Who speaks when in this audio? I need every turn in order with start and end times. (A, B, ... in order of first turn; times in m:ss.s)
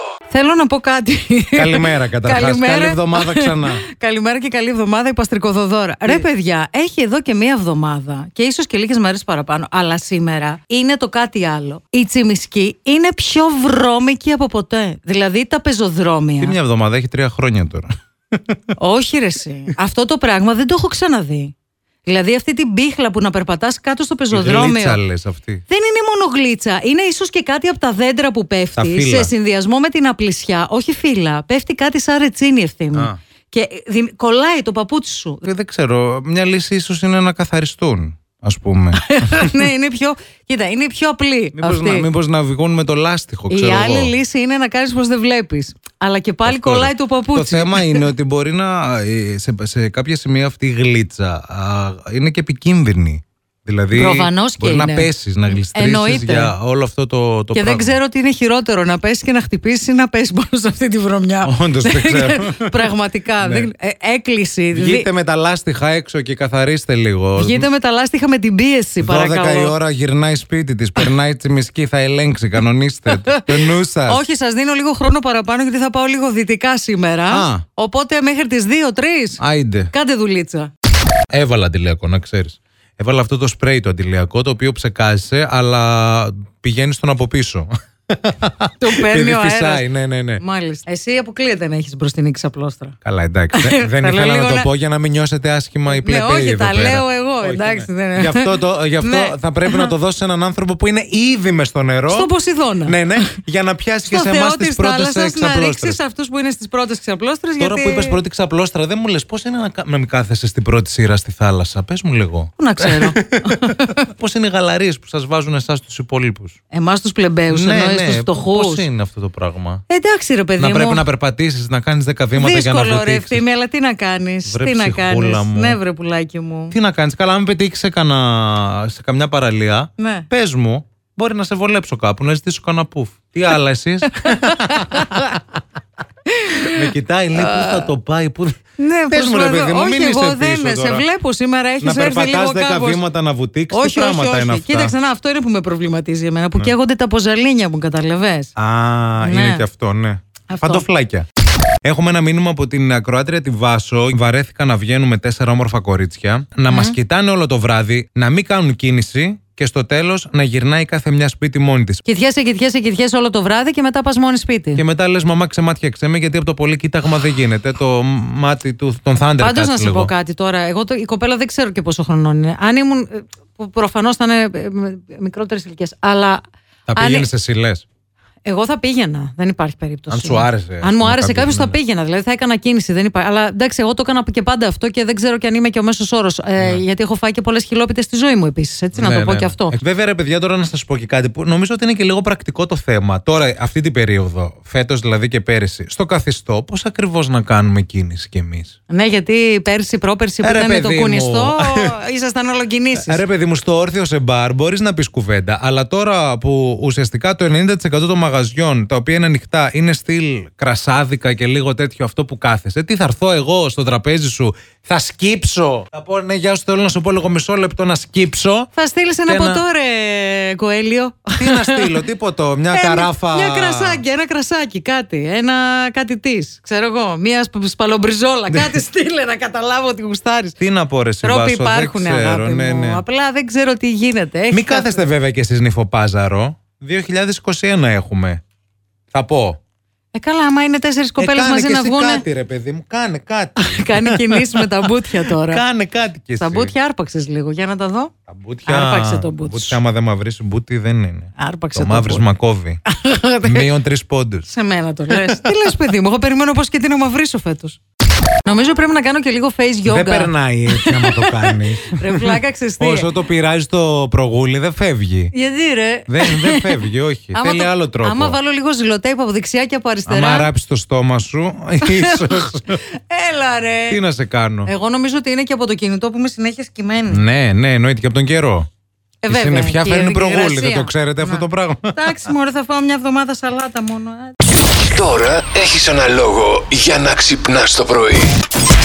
0:00.3-0:16.6 A
0:01.5-0:03.8 B
0:16.4-0:18.6 B
0:18.8-0:21.5 A
0:22.0-0:25.0 A
0:24.3-0:25.6 B
0:25.7-0:35.4 A
0:28.8-0:29.3 B
0:32.9-0:33.2 B
0:35.4-0:39.6 B
0:39.0-0:42.1 A
0:41.6-0:44.1 B
0:43.5-0:48.1 A
0:46.4-0:58.0 B
0:53.9-0:55.1 A
0:55.6-0:56.5 A
0:57.5-1:05.1 A
1:01.4-1:03.7 B
1:04.7-1:07.7 B
1:07.4-1:09.8 A
1:09.0-1:14.2 B
1:13.1-1:20.7 A
1:17.3-1:17.6 B
1:19.4-1:19.9 B
1:21.3-1:30.4 B
1:28.8-1:33.0 A
1:33.0-1:42.3 B
1:33.5-1:34.7 A
1:35.9-1:39.9 A
1:42.1-1:43.3 A
1:42.9-1:46.0 B
1:44.0-1:48.2 A
1:47.6-1:56.6 B
1:52.6-1:54.1 A
1:56.7-1:58.9 A
1:57.5-1:59.8 B
1:59.9-2:01.0 A
2:00.6-2:03.4 B
2:02.3-2:06.7 A
2:04.4-2:05.8 B
2:06.7-2:15.4 B
2:10.0-2:10.2 A
2:14.1-2:15.4 A
2:16.2-2:17.9 A
2:16.5-2:21.0 B
2:18.8-2:23.0 A
2:21.8-2:24.9 B
2:23.7-2:28.5 A
2:28.6-2:31.2 B
2:29.2-2:29.6 A
2:30.5-2:30.8 A
2:31.8-2:42.0 B
2:36.7-2:37.0 A
2:42.0-2:44.8 A
2:44.8-2:50.1 B
2:49.4-2:56.4 A
2:56.9-2:57.8 B
2:56.9-2:57.3 A
2:58.4-3:09.8 A
3:00.1-3:01.8 B
3:06.6-3:06.8 B
3:09.0-3:18.7 B
3:18.9-3:23.2 A
3:20.4-3:22.0 B
3:22.9-3:38.7 B
3:38.7-3:42.0 A
3:39.3-3:39.6 B
3:41.4-3:44.0 B
3:42.7-3:50.6 A
3:48.5-3:48.8 B
3:50.6-3:53.0 B
3:51.2-3:55.0 A
3:54.5-3:58.4 B
3:59.1-3:59.6 B
4:00.1-4:02.2 A
4:01.2-4:06.7 B
4:03.6-4:05.6 A
4:06.4-4:08.1 A
4:08.3-4:12.8 B
4:08.7-4:09.8 A
4:11.4-4:12.2 A
4:12.8-4:13.7 A
4:13.4-4:14.5 B
4:14.5-4:17.8 A
4:15.1-4:15.5 B
4:18.4-4:23.2 A
4:19.9-4:25.3 B
4:25.3-4:30.5 A
4:26.1-4:28.4 B
4:30.1-4:32.8 B
4:31.8-4:34.0 A
4:33.9-4:34.7 B
4:34.6-4:37.2 A
4:37.1-4:38.7 B
4:39.2-4:44.4 A
4:39.3-4:42.3 B
4:44.7-4:48.4 C